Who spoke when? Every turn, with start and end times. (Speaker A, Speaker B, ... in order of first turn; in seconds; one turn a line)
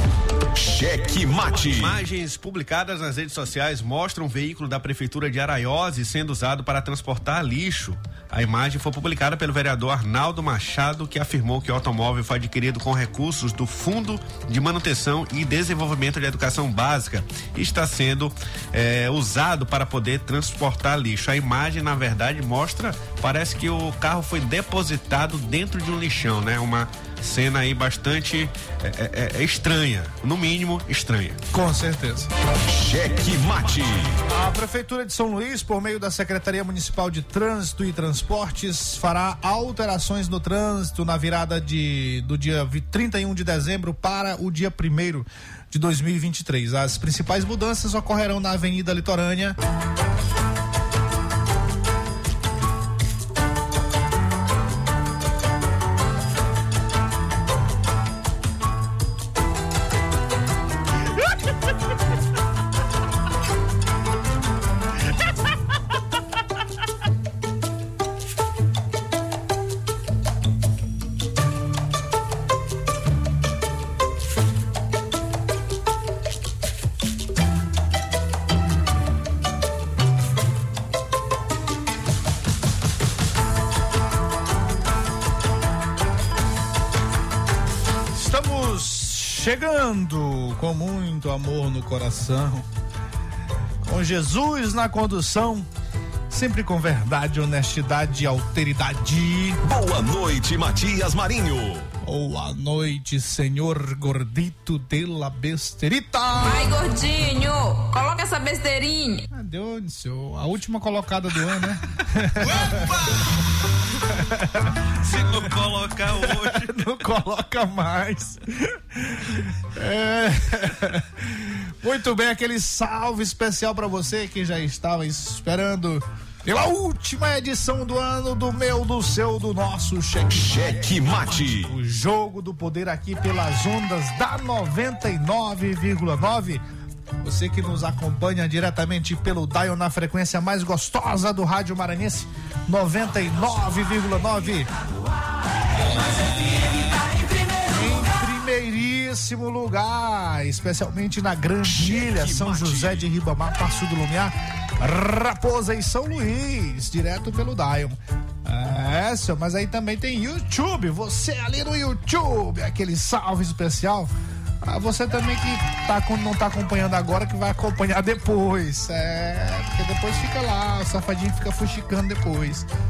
Speaker A: 0.6-2.0
Speaker B: 1.5-31.4
Speaker C: 31.5-32.3
Speaker A: 32.7-34.2
Speaker C: 34.3-49.6
Speaker C: 88.1-92.7
Speaker C: 93.8-95.7
Speaker C: 96.3-99.6
Speaker A: 99.6-101.9
Speaker C: 102.0-106.7
Speaker D: 106.3-109.2
Speaker C: 109.3-113.2
Speaker C: 114.0-114.8
Speaker B: 114.9-116.9
Speaker C: 116.1-136.6
Speaker A: 130.3-131.7
Speaker C: 137.2-144.7
Speaker D: 146.9-147.6
Speaker C: 147.7-172.7
Speaker A: 151.6-153.1